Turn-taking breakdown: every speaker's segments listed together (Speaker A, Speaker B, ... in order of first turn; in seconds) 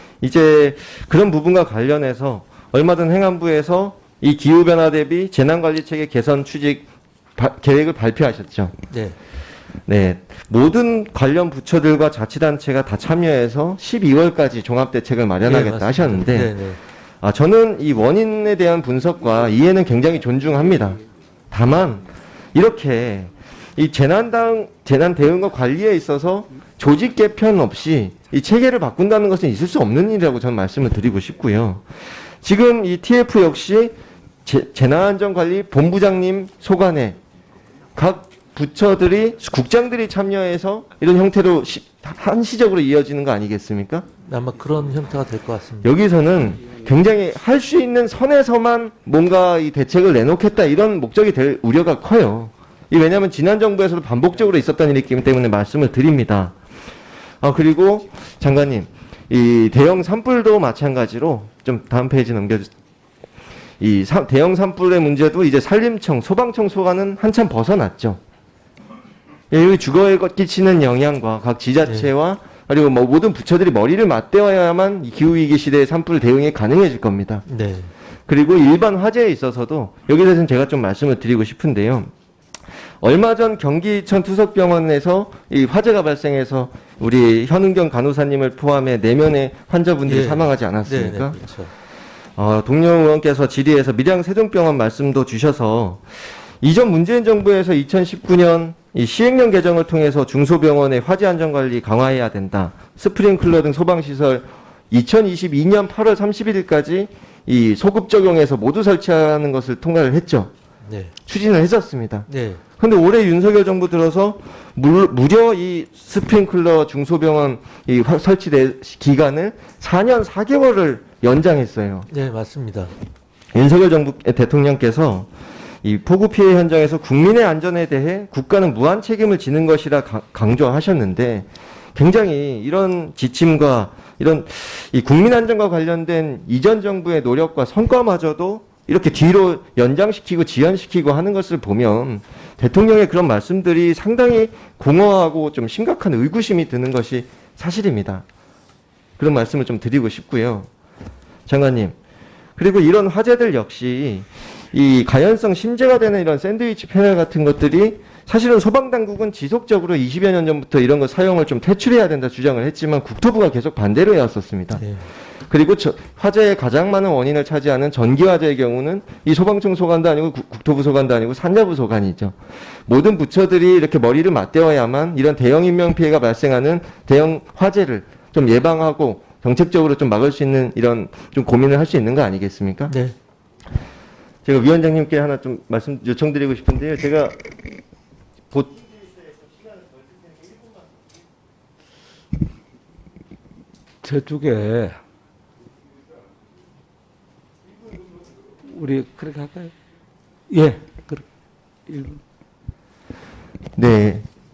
Speaker A: 0.2-8.8, 9.9-16.5, 17.2-31.9, 32.4-37.2, 37.9-44.0, 45.8-56.5, 57.4-62.7, 63.8-68.2, 69.5-77.4, 78.3-82.1, 83.0-91.3, 92.4-110.5, 111.3-112.3, 112.8-122.1, 123.5-125.3, 125.8-148.2, 149.2-150.7, 151.5-151.9, 152.6-164.8, 165.5-172.3, 172.9-182.9, 184.4-187.4, 188.5-189.0, 203.8-204.2
Speaker B: 8.9-9.2, 15.4-16.8, 44.2-45.9, 71.8-72.1, 77.5-77.9, 90.1-91.7, 110.8-111.1, 112.3-112.6, 122.1-122.9, 164.8-165.0, 182.9-183.1
Speaker C: 194.0-195.0, 198.6-199.7, 200.5-201.2, 201.9-202.2